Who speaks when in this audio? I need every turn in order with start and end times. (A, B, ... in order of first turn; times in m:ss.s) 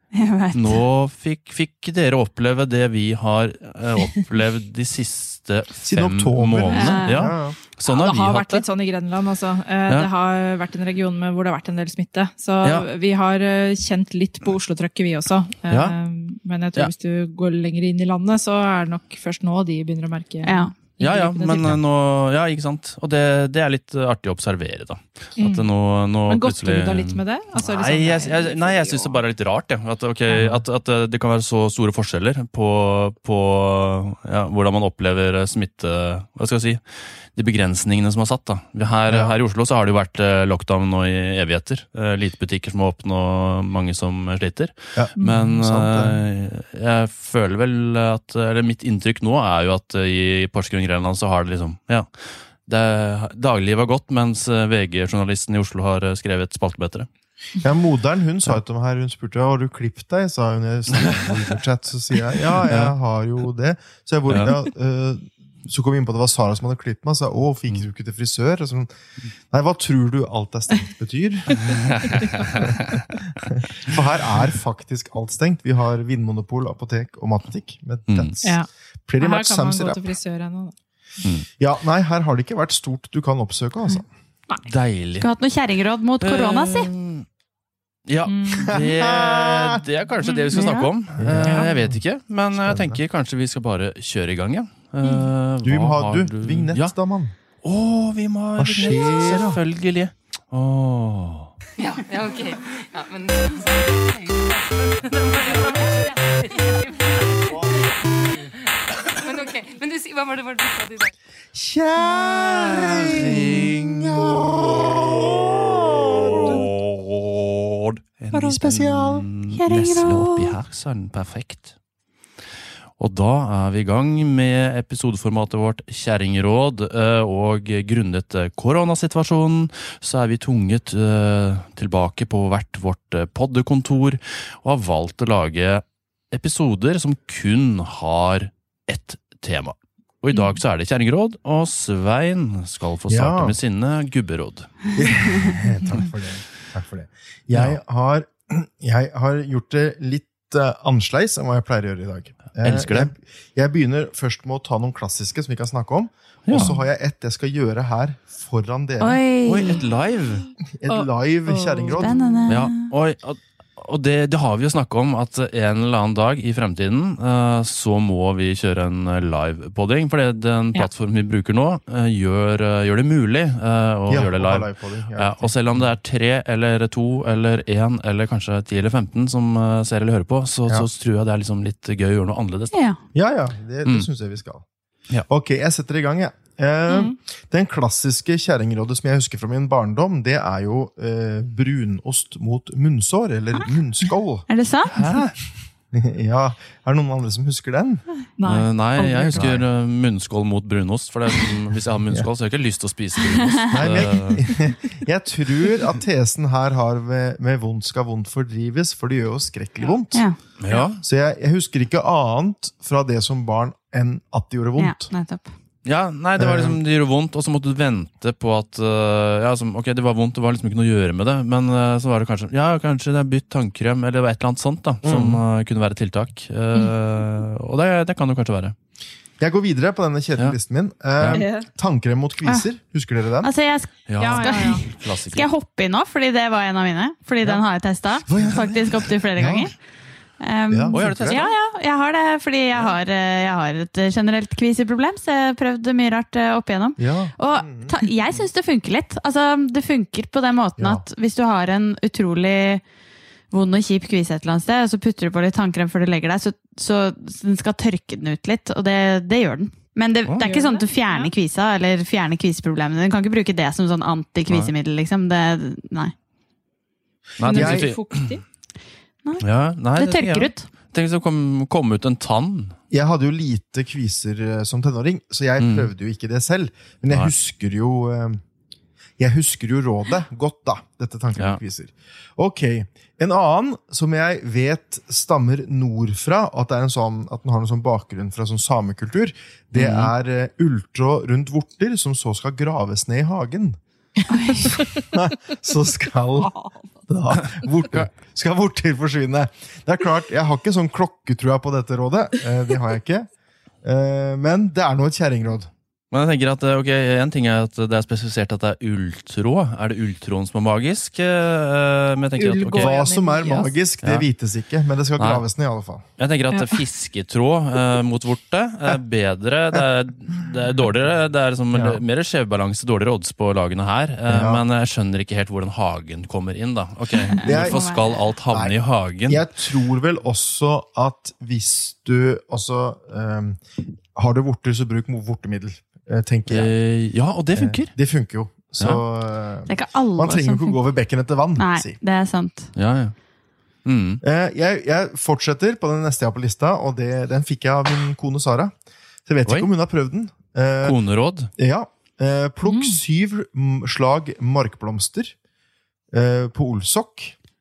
0:00.1-0:00.8 A
0:00.5-0:08.6 B
0:05.8-0:07.6 C
0:06.7-0:07.2 A
0:07.8-0:21.8 D
0:15.7-0:16.0 B
0:20.4-0:20.7 A
0:21.0-0:57.1 B
0:25.4-0:25.7 D
0:26.2-0:29.2 D
0:39.1-0:39.4 C
0:44.9-0:46.2 C
0:45.2-0:45.6 D
0:57.6-1:08.9 C
1:00.9-1:01.5 B
1:02.6-1:02.9 B
1:04.3-1:04.6 B
1:09.5-1:12.8 C
1:11.5-1:13.0 B
1:11.6-1:12.5 D
1:13.4-1:20.1 C
1:18.1-1:18.4 B
1:18.4-1:18.7 D
1:19.2-1:20.7 D
1:21.6-1:24.1 C
1:24.6-1:25.3 B
1:25.2-1:26.9 A
1:26.2-1:27.2 B
1:28.1-1:36.9 B
1:28.3-1:28.8 D
1:28.7-1:29.8 C
1:30.2-1:30.5 D
1:30.5-1:30.9 A
1:31.2-1:32.0 C
1:32.6-1:33.0 C
1:35.0-1:35.3 D
1:35.6-1:37.3 C
1:37.6-1:41.5 B
1:38.6-1:39.6 C
1:41.9-1:43.5 E
1:49.4-1:50.9 E
1:51.5-1:56.7 C
1:52.1-2:01.7 B
1:58.3-1:59.2 C
1:59.5-2:00.5 A
2:03.0-2:26.0 B
2:20.3-2:20.6 D
2:23.1-2:23.6 C
2:25.0-2:39.2 C
2:32.6-2:33.1 B
2:36.4-2:36.7 B
2:39.0-2:39.8 A
2:39.4-2:40.4 B
2:40.8-2:42.2 C
2:40.9-2:42.5 D
2:41.9-2:42.9 A
2:42.5-3:02.8 B
2:54.1-2:55.8 C
3:02.7-3:03.0 A
3:03.1-3:04.6 C
3:05.3-3:14.5 C
3:06.9-3:07.1 D
3:14.5-3:14.9 A
3:14.9-3:15.4 B
3:15.9-3:18.0 C
3:18.4-3:19.6 D
3:18.4-3:24.5 B
3:19.3-3:19.6 C
3:23.5-3:23.7 A
3:23.7-3:30.2 C
3:30.1-3:30.4 A
3:30.6-3:31.0 B
3:30.8-3:35.1 C
3:34.8-3:35.5 A
3:35.8-3:48.7 B
3:36.4-3:36.8 C
3:45.0-3:45.4 C
3:49.4-3:53.5 C
3:51.2-3:51.4 B
3:51.3-3:51.6 D
3:53.4-3:59.7 A
3:54.1-3:55.5 B
3:54.2-3:54.8 D
3:58.2-3:59.7 C
4:00.4-4:12.8 A
4:00.7-4:01.4 C
4:00.9-4:01.4 B
4:07.0-4:07.9 C
4:10.8-4:11.0 C
4:13.5-4:26.1 A
4:20.4-4:21.3 D
4:24.5-4:24.7 B
4:27.4-4:28.4 B
4:27.4-4:28.4 D
4:27.4-4:27.9 C
4:29.2-4:30.6 A
4:29.4-4:32.8 B
4:32.9-4:38.4 C
4:35.6-4:35.9 B
4:39.2-4:53.8 C
4:49.8-4:50.1 B
4:54.3-4:54.8 A
4:54.7-4:56.5 C
4:56.4-4:56.9 D
4:57.1-5:03.3 C
5:03.8-5:05.7 C
5:06.1-5:12.9 B
5:12.4-5:13.7 D
5:12.8-5:16.0 C
5:15.2-5:15.4 B
5:16.2-5:29.4 B
5:16.5-5:16.8 D
5:21.7-5:22.0 C
5:24.3-5:24.6 C
5:27.4-5:28.2 A
5:27.4-5:27.8 C
5:28.5-5:33.6 C
5:34.1-5:36.7 C
5:36.5-5:38.0 B
5:37.5-5:42.0 C
5:39.7-5:40.8 A
5:41.6-5:42.7 A
5:42.7-5:43.1 B
5:43.8-5:44.2 B
5:44.2-5:48.7 C
5:49.2-5:51.0 C
5:50.8-5:51.5 B
5:51.6-5:55.3 C
5:52.6-5:53.0 D
5:56.1-5:57.4 C